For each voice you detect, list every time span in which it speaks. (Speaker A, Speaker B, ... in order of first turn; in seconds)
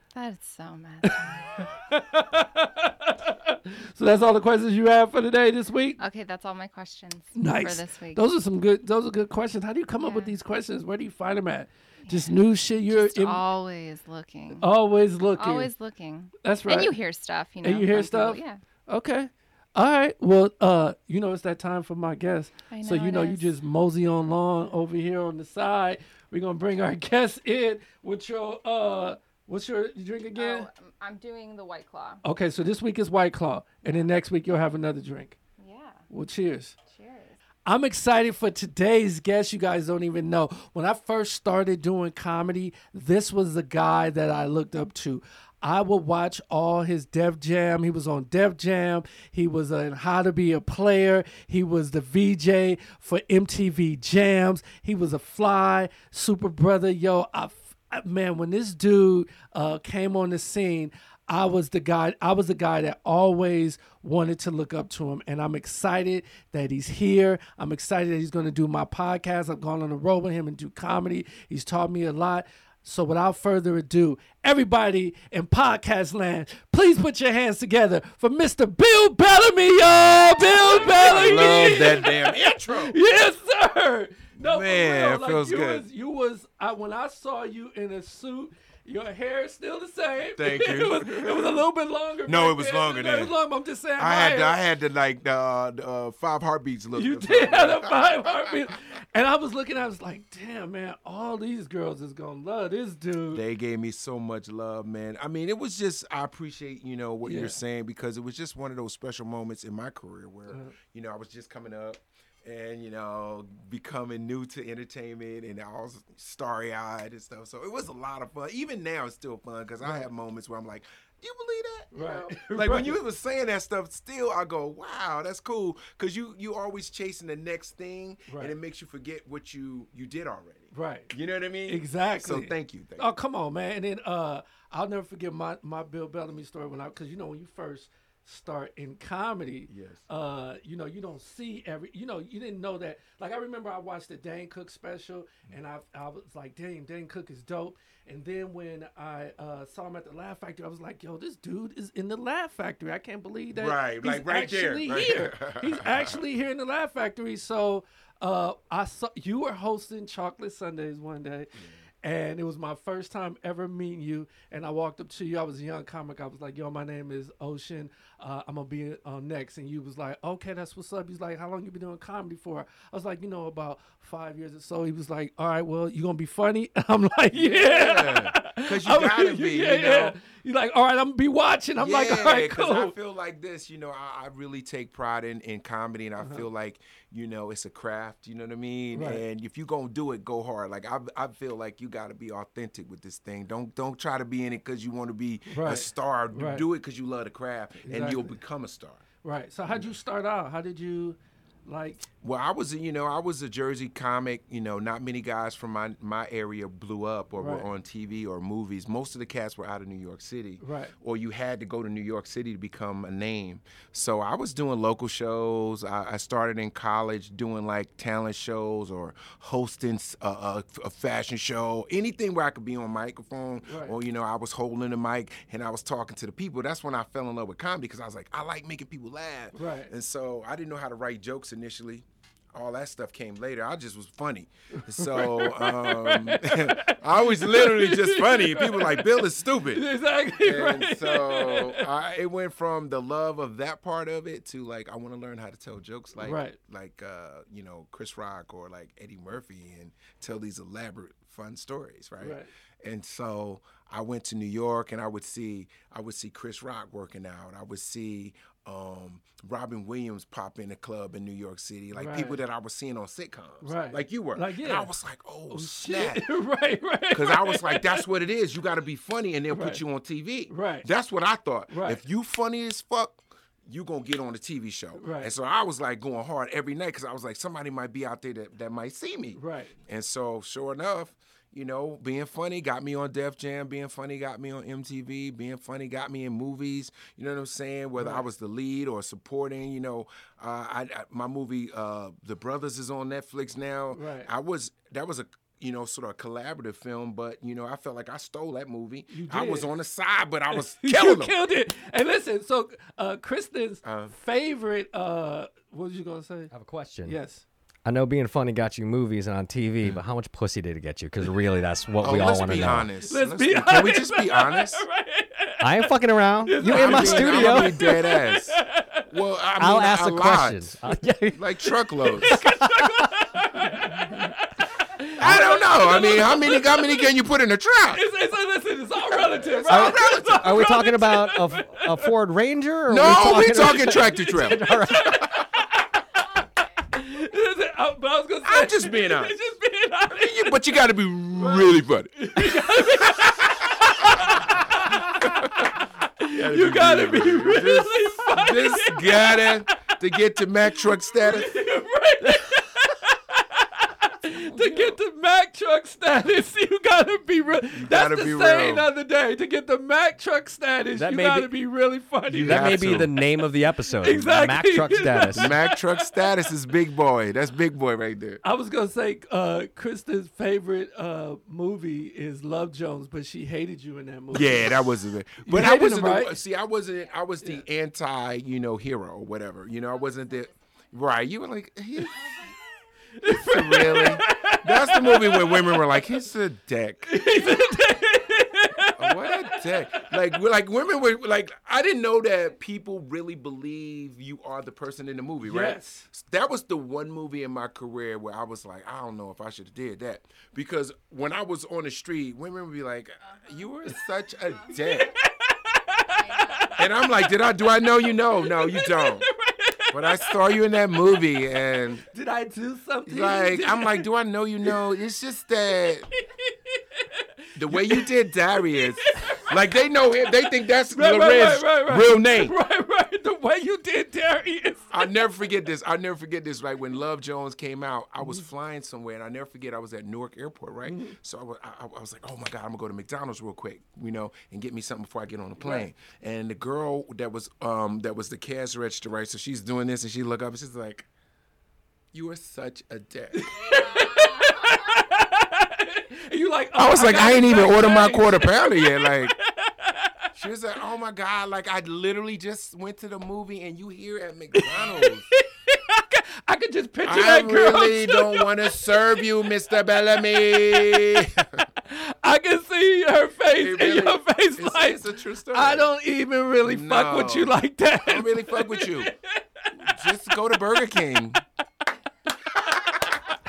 Speaker A: 0.1-1.5, 6.0-8.2, 10.0-10.3, 12.1-12.4, 12.9-14.6, 15.4-18.6, 22.7-23.5, 30.4-32.2, 35.6-36.0, 36.9-37.4
Speaker B: 1.1-6.0, 7.3-13.4, 14.6-15.7, 16.4-16.9, 17.6-30.7, 32.2-35.4, 36.1-36.7, 37.6-94.6, 96.9-103.4, 107.2-107.6, 110.5-110.7, 119.8-120.1, 121.9-123.0, 128.3-128.5, 130.7-131.1, 131.7-182.9, 188.9-189.2, 195.5-196.7, 197.8-198.4, 199.2-202.1, 207.3-207.7, 210.6-210.9, 223.7-223.9, 229.5-229.9, 234.9-241.9, 246.2-246.6, 252.2-252.5, 261.9-262.4, 263.6-264.9, 265.5-268.1, 269.5-269.8, 270.5-270.9, 271.7-272.0, 275.0-275.3, 279.4-279.7, 288.0-288.2, 293.9-294.3, 299.1-299.7, 300.5-306.5, 307.1-307.4, 312.1-319.0, 322.0-327.1, 327.9-332.1, 333.3-336.2, 336.9-340.8, 341.3-345.6, 346.2-350.0, 350.6-362.8, 364.0-366.3, 368.4-376.4, 383.2-385.9, 387.1-390.0, 395.4-396.1, 404.7-410.6, 412.0-414.1, 415.8-425.2, 428.2-428.4, 430.8-431.1, 435.6-435.9, 443.3-450.3, 454.5-459.3, 460.2-461.2, 461.9-469.7
Speaker C: 80.7-83.0, 84.4-85.8, 90.3-91.6, 92.3-93.3, 94.0-98.6, 103.3-133.1, 139.7-140.0, 153.5-156.2, 177.3-180.2, 181.8-199.0, 202.2-266.2, 267.1-301.3, 303.8-304.1, 312.0-314.8, 316.6-320.7, 321.3-322.4, 325.2-328.0, 329.1-330.8, 332.9-334.7, 338.4-339.3, 340.1-351.6, 354.3-355.0, 357.7-358.9, 362.3-363.1, 365.3-368.4, 374.3-382.4, 383.4-387.2, 388.9-405.1, 406.8-409.3, 409.9-412.0, 413.1-416.1, 417.6-422.5, 424.9-441.1, 442.1-443.6, 446.8-449.3, 450.3-455.3, 457.1-461.6, 463.6-465.9, 466.6-469.1, 469.7-471.4, 472.6-473.1
Speaker D: 306.5-307.2, 307.8-312.9, 315.6-317.8, 319.6-321.6, 322.2-323.1, 329.7-335.4, 360.9-361.5, 362.4-365.5